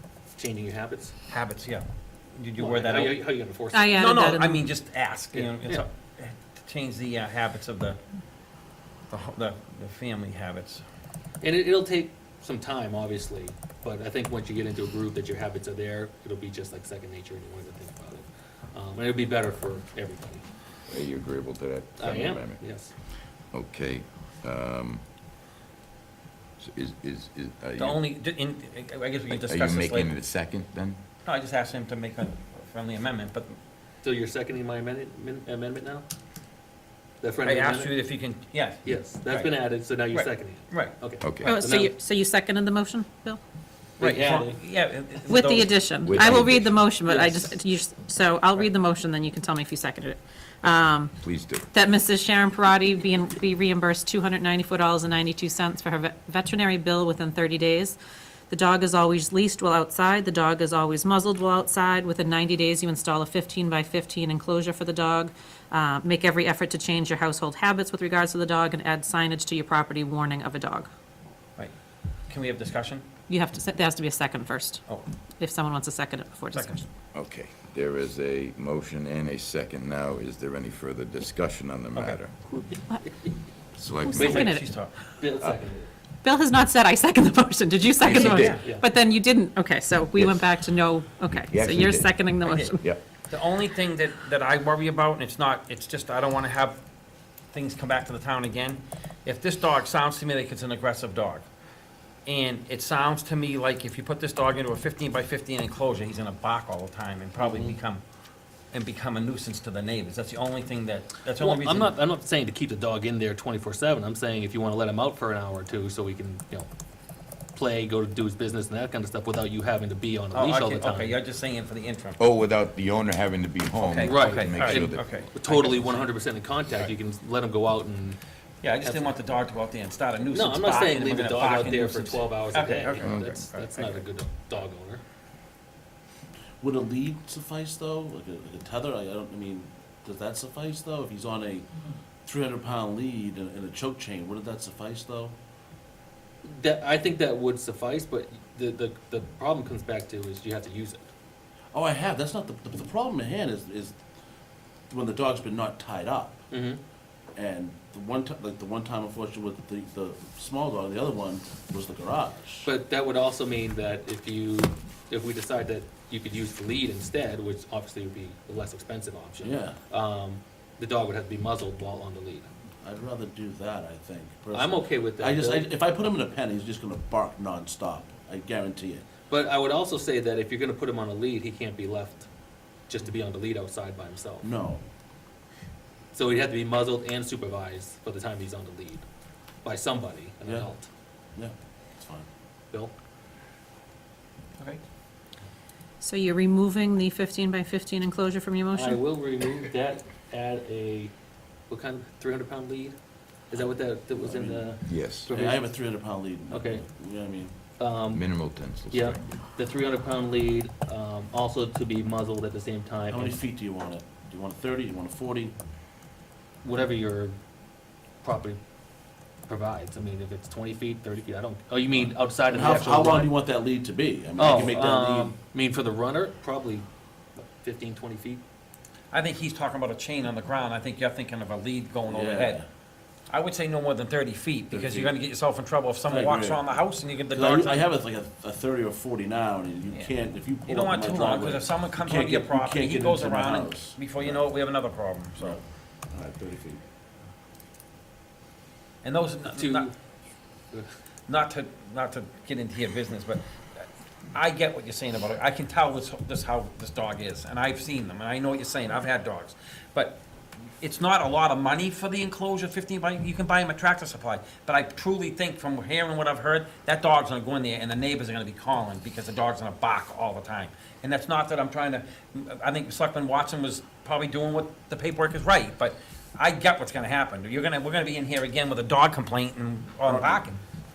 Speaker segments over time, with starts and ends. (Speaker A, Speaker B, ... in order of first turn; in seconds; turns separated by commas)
Speaker A: 0.4-1.1, Speaker B: 1.3-3.2, Speaker A: 2.6-4.1, Speaker C: 3.7-4.7, Speaker B: 4.0-8.0, Speaker A: 5.3-5.9, Speaker B: 9.1-10.8, Speaker A: 11.4-20.4, Speaker D: 20.9-22.6, Speaker A: 22.0-22.9, Speaker D: 23.5-25.0, Speaker D: 26.6-28.0, Speaker B: 27.8-30.1, Speaker D: 29.3-31.0, Speaker B: 31.2-33.6, Speaker A: 34.0-36.1, Speaker A: 37.2-38.0, Speaker B: 37.4-41.0, Speaker A: 38.8-42.0, Speaker D: 41.2-41.5, Speaker C: 41.4-43.4, Speaker A: 44.0-44.6, Speaker B: 44.0-45.8, Speaker C: 45.3-51.2, Speaker D: 46.0-46.8, Speaker A: 47.1-47.4, Speaker D: 51.2-51.7, Speaker C: 51.7-58.0, Speaker C: 58.5-70.9, Speaker B: 72.3-73.1, Speaker C: 73.3-74.9, Speaker C: 75.4-76.9, Speaker D: 77.1-82.4, Speaker B: 82.0-82.2, Speaker D: 83.8-84.6, Speaker C: 84.0-84.7, Speaker A: 84.2-84.5, Speaker B: 84.3-85.0, Speaker A: 85.2-85.9, Speaker C: 86.2-92.9, Speaker D: 88.0-88.6, Speaker B: 88.1-88.7, Speaker A: 88.1-88.8, Speaker D: 90.2-90.7, Speaker D: 91.3-93.0, Speaker B: 92.5-92.8, Speaker B: 93.3-96.8, Speaker B: 97.5-101.5, Speaker B: 102.3-108.0, Speaker A: 107.4-107.8, Speaker B: 108.7-112.0, Speaker A: 111.4-116.7, Speaker A: 117.5-121.2, Speaker B: 120.4-122.2, Speaker D: 122.2-125.2, Speaker B: 123.8-125.8, Speaker A: 124.0-128.2, Speaker B: 128.6-134.1, Speaker A: 128.8-129.2, Speaker A: 130.3-135.0, Speaker D: 133.0-133.4, Speaker E: 136.6-141.7, Speaker E: 142.2-145.3, Speaker A: 146.4-151.1, Speaker E: 151.7-154.0, Speaker E: 154.9-156.4, Speaker A: 156.5-156.8, Speaker E: 157.3-162.7, Speaker A: 162.7-172.5, Speaker E: 169.4-169.8, Speaker E: 172.8-179.1, Speaker A: 174.5-175.7, Speaker A: 179.3-182.3, Speaker A: 182.9-184.5, Speaker E: 184.4-184.8, Speaker A: 186.1-189.1, Speaker A: 189.6-190.9, Speaker E: 190.4-190.7, Speaker E: 191.3-192.3, Speaker B: 194.6-194.8, Speaker C: 196.0-199.0, Speaker A: 198.7-201.1, Speaker A: 201.7-203.0, Speaker A: 203.5-205.8, Speaker E: 204.2-204.8, Speaker D: 204.8-205.3, Speaker E: 205.3-207.5, Speaker A: 206.5-206.8, Speaker A: 207.8-208.2, Speaker D: 208.1-209.4, Speaker A: 208.9-213.4, Speaker E: 213.1-215.6, Speaker A: 216.6-217.4, Speaker A: 218.2-218.6, Speaker A: 219.5-223.3, Speaker E: 221.9-225.4, Speaker A: 224.4-228.4, Speaker B: 229.1-232.6, Speaker E: 232.1-232.7, Speaker B: 233.3-237.8, Speaker E: 234.7-235.2, Speaker E: 236.1-246.8, Speaker B: 240.7-245.6, Speaker B: 249.0-249.9, Speaker A: 249.4-249.9, Speaker B: 251.3-260.2, Speaker B: 260.8-280.6